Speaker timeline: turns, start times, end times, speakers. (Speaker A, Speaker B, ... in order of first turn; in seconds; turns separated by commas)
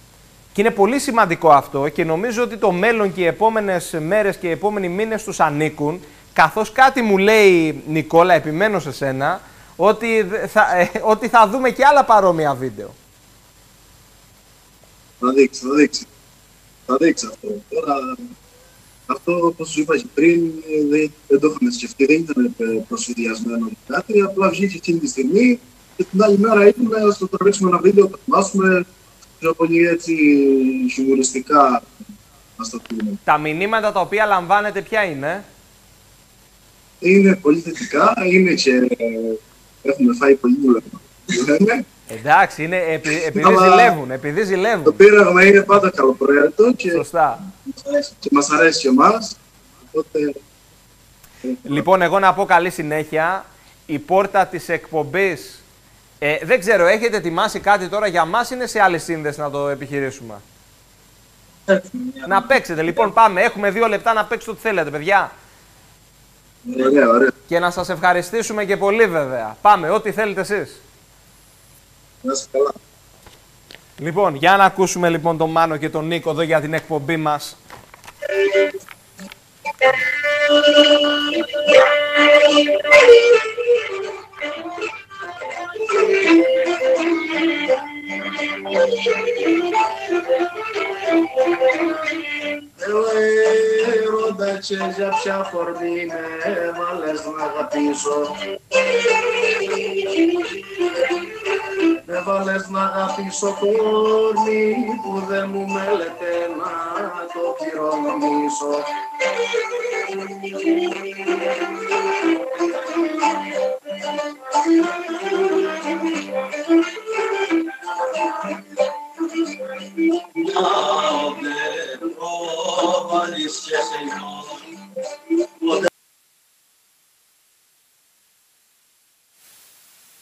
Speaker A: 0.5-12.9, Speaker B: 15.2-16.1, Speaker B: 16.9-18.3, Speaker B: 19.1-28.9, Speaker B: 29.4-31.8, Speaker B: 32.6-33.2, Speaker A: 33.2-35.4, Speaker B: 37.0-41.8, Speaker A: 42.1-45.0, Speaker B: 43.3-44.0, Speaker B: 44.8-47.0, Speaker A: 46.9-47.4, Speaker C: 47.7-48.1, Speaker B: 48.2-49.4, Speaker B: 49.9-50.4, Speaker B: 51.4-51.8, Speaker A: 51.6-55.6, Speaker A: 56.2-60.4, Speaker C: 61.7-63.1, Speaker A: 62.2-65.3, Speaker B: 66.7-67.3, Speaker A: 67.5-70.8, Speaker B: 72.2-72.7, Speaker A: 74.0-77.6, Speaker B: 92.6-100.8, Speaker B: 101.7-109.0, Speaker C: 120.2-124.8